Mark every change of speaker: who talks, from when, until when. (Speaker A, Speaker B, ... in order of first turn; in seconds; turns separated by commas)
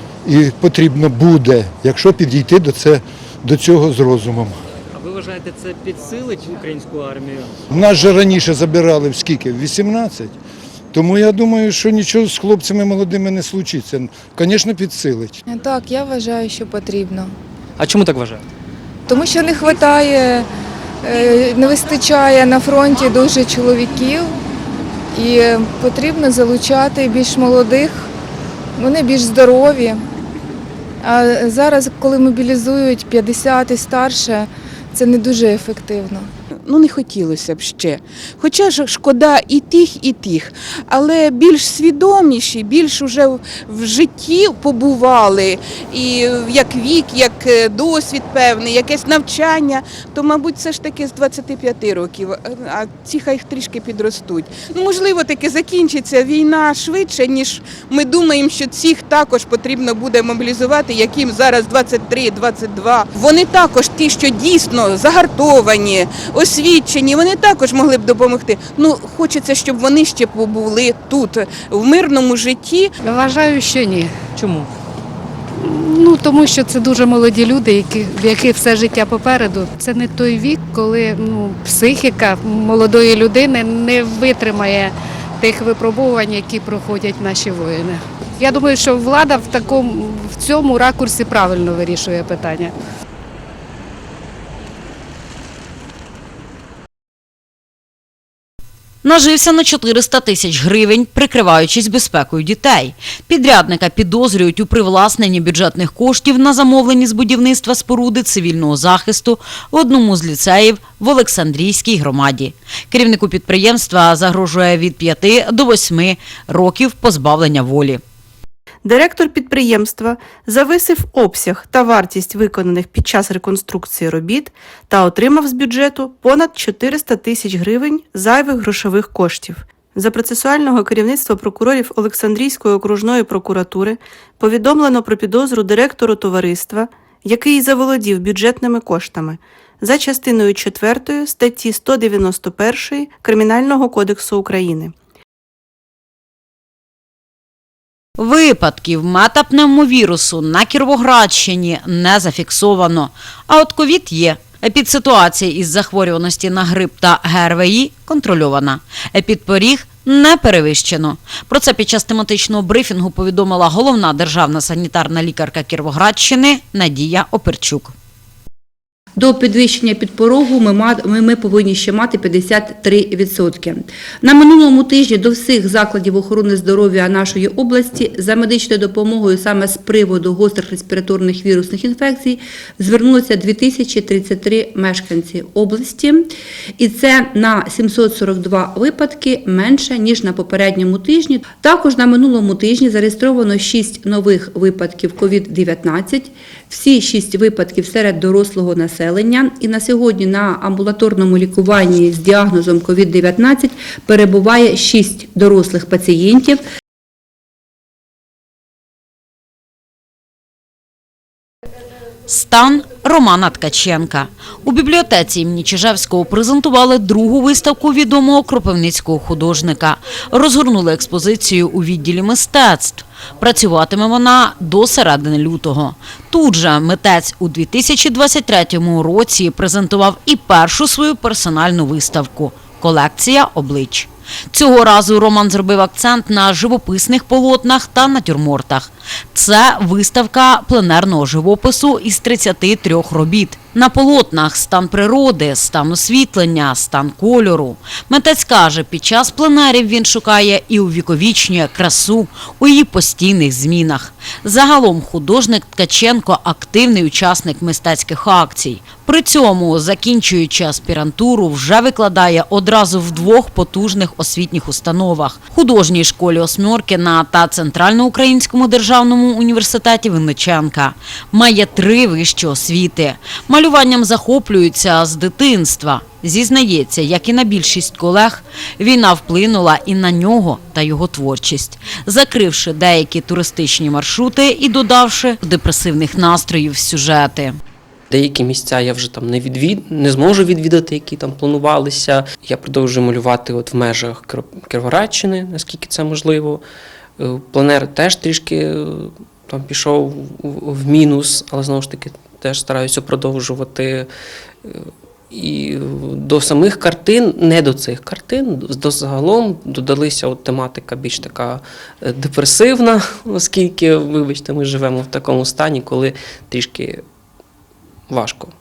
Speaker A: 0.2-4.6, Speaker B: 4.9-7.5, Speaker A: 7.7-10.3, Speaker A: 10.9-15.4, Speaker C: 15.5-17.3, Speaker B: 17.8-18.4, Speaker C: 19.1-20.5, Speaker C: 21.0-24.3, Speaker C: 25.1-28.1, Speaker C: 28.8-30.0, Speaker C: 31.0-36.3, Speaker D: 36.7-72.9, Speaker E: 73.0-74.1, Speaker B: 74.3-74.7, Speaker E: 75.6-92.7, Speaker F: 99.0-118.0, Speaker G: 118.8-144.9, Speaker F: 148.2-167.9, Speaker H: 169.2-186.3, Speaker H: 186.8-206.6, Speaker F: 212.3-287.6, Speaker I: 288.1-296.6, Speaker I: 297.2-304.1, Speaker I: 304.6-317.0, Speaker I: 318.1-318.5